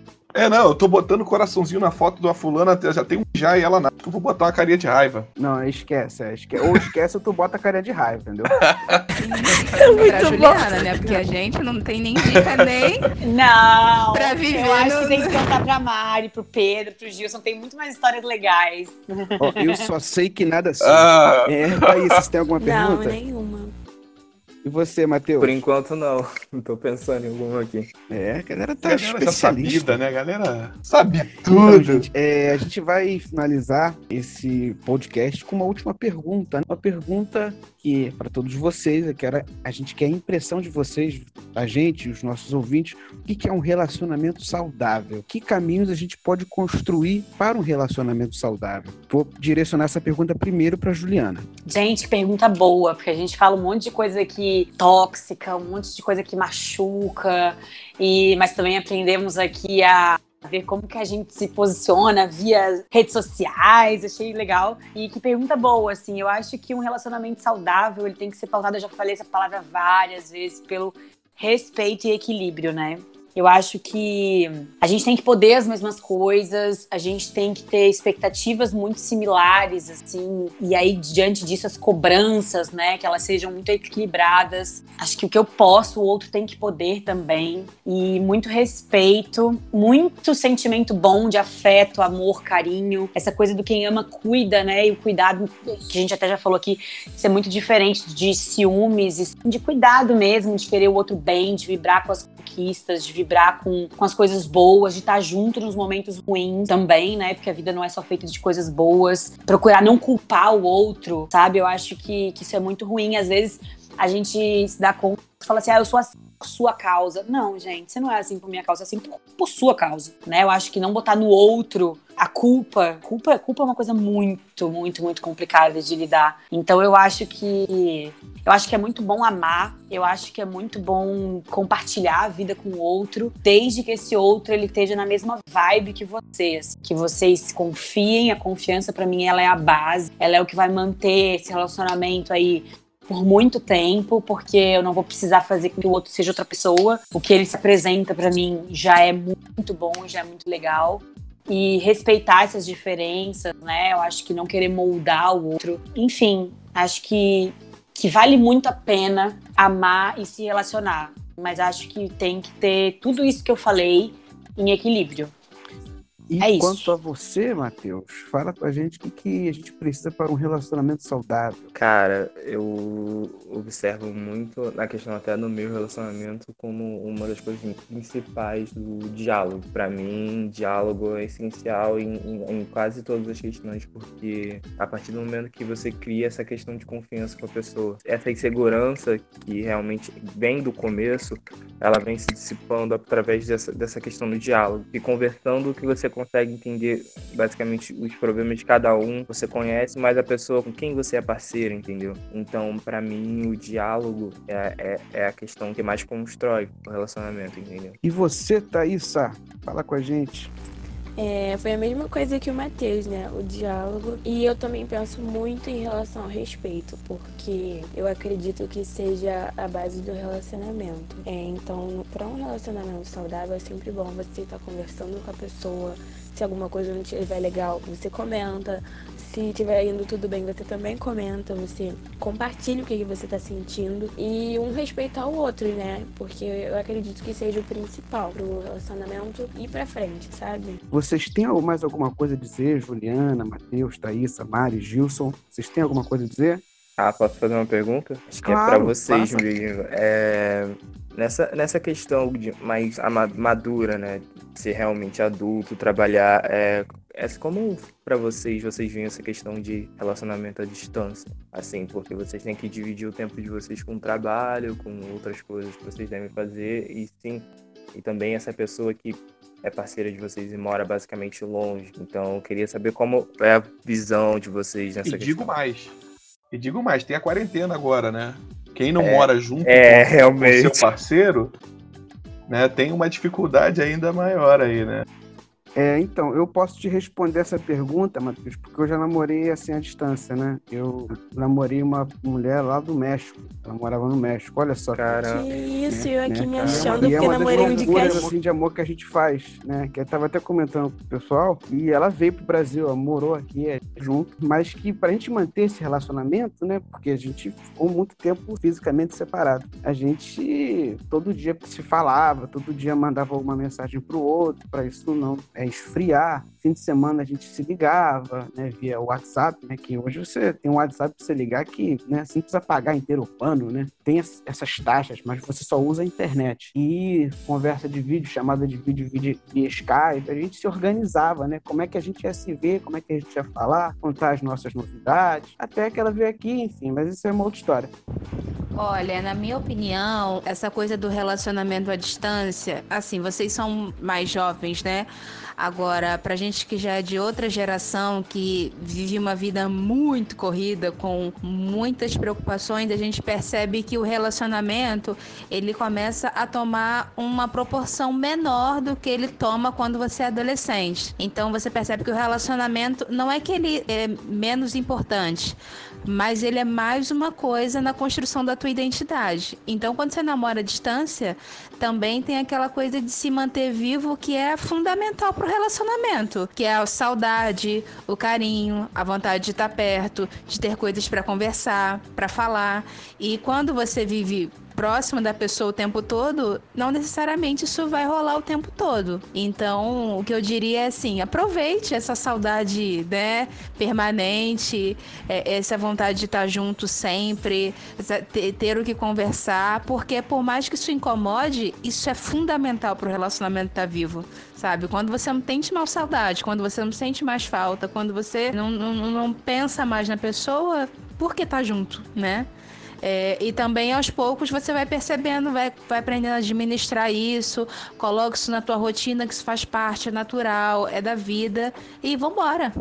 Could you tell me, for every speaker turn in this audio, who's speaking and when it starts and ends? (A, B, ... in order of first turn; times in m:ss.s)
0:00.4-0:05.3 A
0:05.4-0:08.5 B
0:08.5-0:09.0 A
0:09.2-0:13.1 C
0:09.8-0:10.6 D
0:12.3-0:12.7 A
0:13.2-0:19.8 D
0:14.1-0:15.6 C
0:19.4-0:23.2 B
0:20.8-0:21.9 A
0:22.6-0:23.7 E
0:24.6-0:25.6 B
0:25.4-0:27.9 F
0:28.1-0:30.0 B
0:28.8-0:32.1 A
0:31.5-0:51.5 B
0:51.7-2:45.3 D
2:46.3-2:51.7 B
2:46.4-2:46.9 D
2:51.8-3:28.0 F
3:28.0-3:30.5 B
3:31.2-4:00.8 E
4:00.9-4:06.6 B
4:07.0-4:35.5 F
4:08.4-4:09.4 B
4:35.0-4:35.9 A
4:36.5-4:41.5 A
4:39.0-4:40.9 F
4:42.5-4:45.1 A
4:45.8-5:37.9 B
4:54.9-4:55.5 F
4:55.2-4:58.3 E
4:56.6-4:58.3 F
5:38.8-6:52.5 C
6:53.0-7:02.7 C